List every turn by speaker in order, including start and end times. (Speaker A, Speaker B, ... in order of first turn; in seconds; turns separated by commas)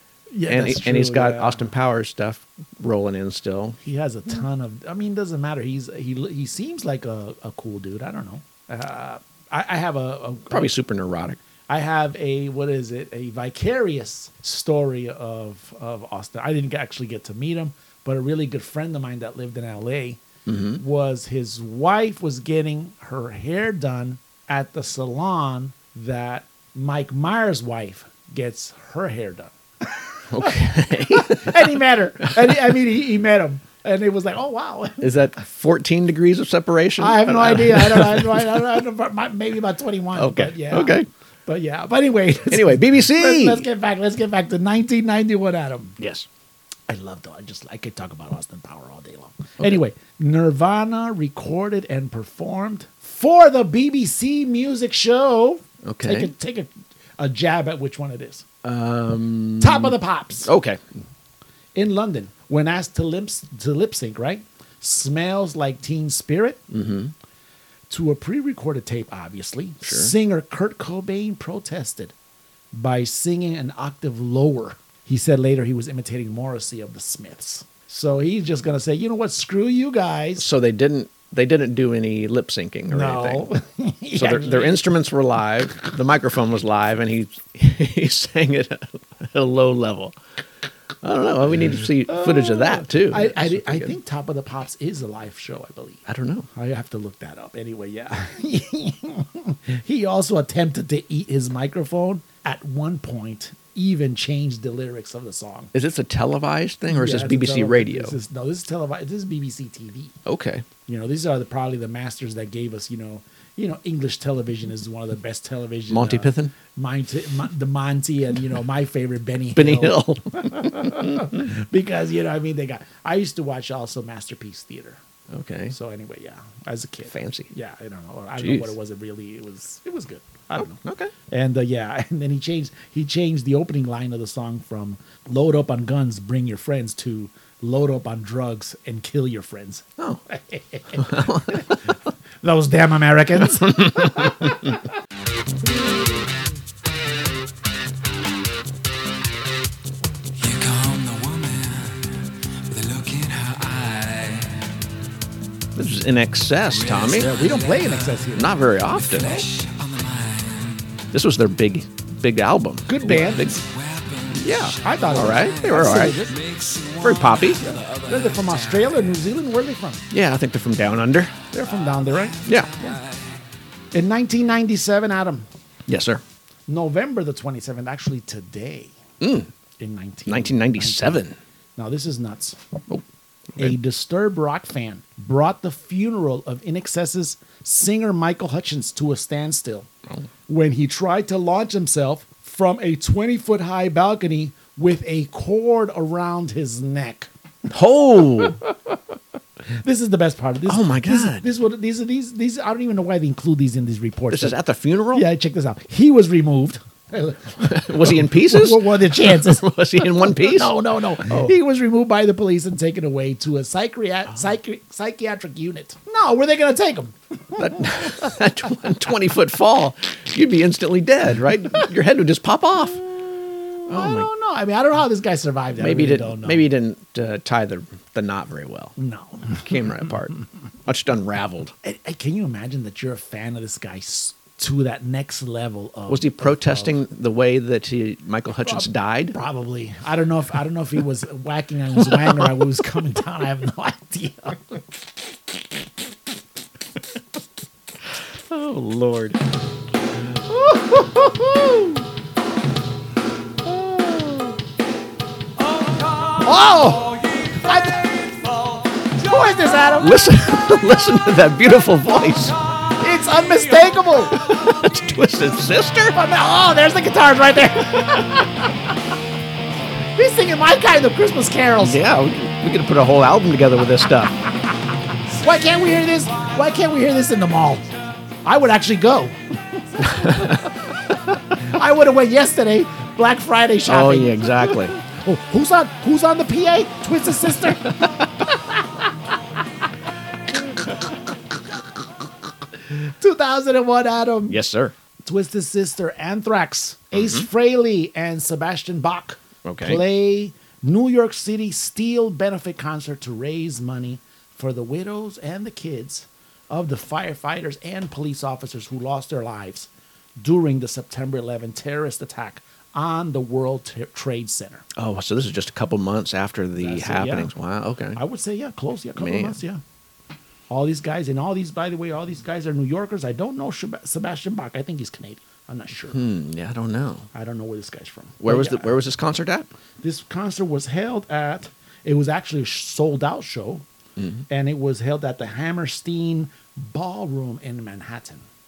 Speaker A: 0.3-1.7, Speaker B: 0.5-3.8, Speaker A: 3.8-10.7, Speaker B: 10.5-11.4, Speaker A: 11.7-20.2, Speaker B: 20.4-20.8, Speaker A: 20.7-35.1, Speaker B: 30.3-31.7, Speaker B: 35.0-38.8, Speaker A: 37.0-46.0, Speaker B: 40.1-41.1, Speaker B: 42.5-43.6, Speaker B: 46.0-46.3, Speaker A: 46.9-58.4, Speaker B: 55.8-56.3, Speaker B: 58.6-60.8, Speaker A: 59.6-60.5, Speaker A: 61.7-66.6, Speaker B: 66.7-67.1, Speaker A: 67.9-72.1, Speaker B: 69.8-70.1, Speaker A: 72.7-80.5, Speaker B: 80.4-83.5, Speaker A: 82.9-84.8, Speaker B: 84.2-90.1, Speaker B: 91.0-94.0, Speaker A: 92.0-105.7, Speaker B: 96.0-96.5, Speaker B: 105.7-108.2, Speaker A: 106.9-110.1, Speaker B: 110.2-110.7, Speaker A: 110.9-125.0, Speaker B: 115.9-116.5, Speaker B: 119.5-121.4, Speaker B: 125.3-125.7, Speaker A: 125.7-141.8, Speaker B: 127.1-127.5, Speaker B: 128.4-128.8, Speaker B: 130.6-131.1, Speaker B: 140.9-141.8, Speaker A: 142.4-144.8, Speaker B: 143.6-144.7, Speaker C: 150.3-154.7, Speaker B: 155.8-157.3, Speaker C: 156.7-158.3, Speaker A: 157.1-158.6, Speaker B: 158.3-159.5, Speaker C: 158.9-161.1, Speaker B: 161.1-163.6, Speaker A: 162.9-163.6, Speaker C: 163.1-169.1, Speaker B: 164.3-166.2, Speaker A: 164.8-166.3, Speaker B: 167.0-167.7, Speaker A: 167.6-170.0, Speaker B: 170.1-171.3, Speaker A: 171.5-173.0, Speaker C: 171.6-173.4, Speaker B: 172.4-172.7, Speaker A: 173.9-175.5, Speaker B: 175.9-176.2, Speaker A: 176.7-178.9, Speaker B: 179.2-179.5, Speaker A: 179.8-181.2, Speaker B: 180.3-181.3, Speaker A: 181.8-182.6, Speaker A: 183.6-189.9, Speaker A: 190.5-197.3, Speaker B: 197.7-198.6, Speaker A: 198.4-198.9, Speaker A: 199.8-204.6, Speaker B: 200.7-201.5, Speaker B: 204.3-205.2, Speaker A: 205.1-218.4, Speaker B: 207.6-211.5, Speaker B: 217.6-223.0, Speaker A: 222.9-226.7, Speaker B: 223.9-224.3, Speaker B: 225.8-228.9, Speaker A: 229.0-229.7, Speaker B: 229.5-230.3, Speaker B: 230.8-231.7, Speaker A: 231.8-237.0, Speaker B: 236.1-239.3, Speaker A: 238.6-244.8, Speaker B: 248.3-249.4, Speaker B: 250.5-252.0, Speaker B: 253.6-254.6, Speaker A: 256.4-258.2, Speaker A: 259.2-260.2, Speaker B: 260.0-262.6, Speaker A: 263.0-264.4, Speaker B: 264.3-266.2, Speaker A: 266.1-268.8, Speaker A: 270.1-272.0, Speaker B: 271.8-274.4, Speaker A: 275.3-277.9, Speaker A: 278.4-279.4, Speaker A: 280.0-280.7, Speaker B: 280.0-280.7, Speaker A: 281.5-288.5, Speaker B: 283.9-285.0, Speaker A: 292.9-294.6, Speaker B: 294.5-294.9, Speaker A: 295.2-309.9, Speaker B: 297.1-297.4, Speaker B: 299.6-300.0, Speaker A: 310.4-314.9, Speaker B: 314.9-318.2, Speaker A: 316.8-317.5, Speaker A: 318.1-319.8, Speaker B: 319.2-319.6, Speaker A: 320.7-326.2, Speaker B: 326.1-327.3, Speaker A: 327.3-329.0, Speaker B: 328.4-329.7, Speaker A: 330.0-333.8, Speaker B: 334.2-334.4, Speaker A: 334.5-338.4